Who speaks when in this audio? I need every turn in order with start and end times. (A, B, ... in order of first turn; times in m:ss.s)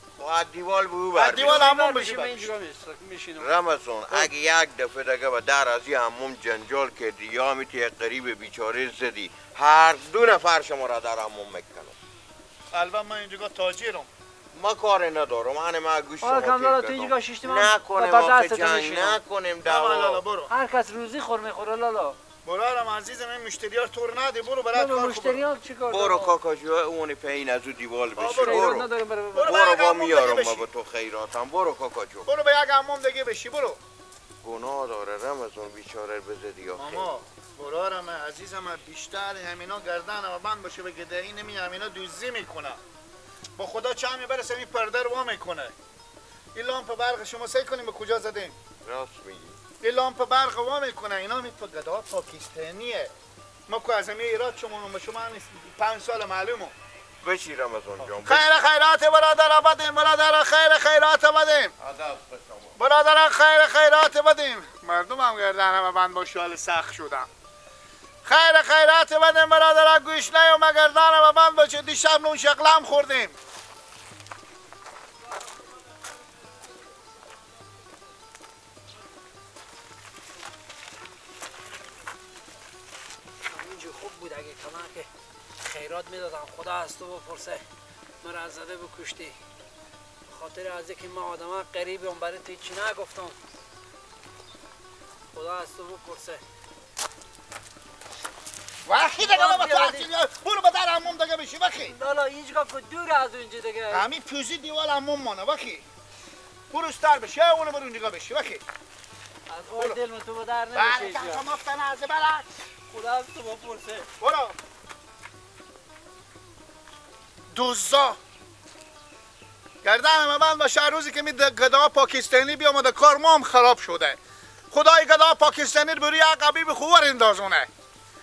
0:00.2-0:01.7 A
0:01.1-0:02.5 B
0:01.3-0:03.5 C
0:03.4-0:11.9 A
0:12.7-0:14.1 B
0:14.5-0:20.2 A
0:16.2-0:19.2 C
0:19.6-0:20.5 B
0:20.5-0:22.2 C
0:22.4-0:25.4 B
0:24.7-0:26.4 C
0:25.9-0:32.3 A
0:28.1-0:28.8 B
0:28.4-0:29.5 C
0:29.3-0:30.7 B
0:32.2-0:33.8 B
0:34.4-0:37.1 A
0:36.7-0:42.8 B
0:43.6-0:45.7 B
0:46.5-0:48.6 B
0:48.8-0:49.6 A
0:49.8-0:53.1 B
0:53.7-0:56.7 B
0:57.2-0:58.6 A
0:58.2-1:01.7 B
1:01.8-1:02.8 A
1:02.8-1:07.3 B
1:08.2-1:13.4 B
1:23.4-1:25.1 C
1:25.6-1:27.6 C
1:28.2-1:29.4 C
1:30.3-1:33.4 C
1:35.3-1:36.4 C
1:38.8-1:41.9 B
1:39.2-1:40.1 C
1:41.8-1:44.0 C
1:43.9-1:45.8 B
1:46.7-1:48.6 B
1:49.5-1:51.4 C
1:50.7-1:52.6 B
1:52.9-1:54.1 C
1:54.2-1:54.6 B
1:57.5-1:58.2 B
1:59.8-2:04.2 B
2:04.7-2:07.7 B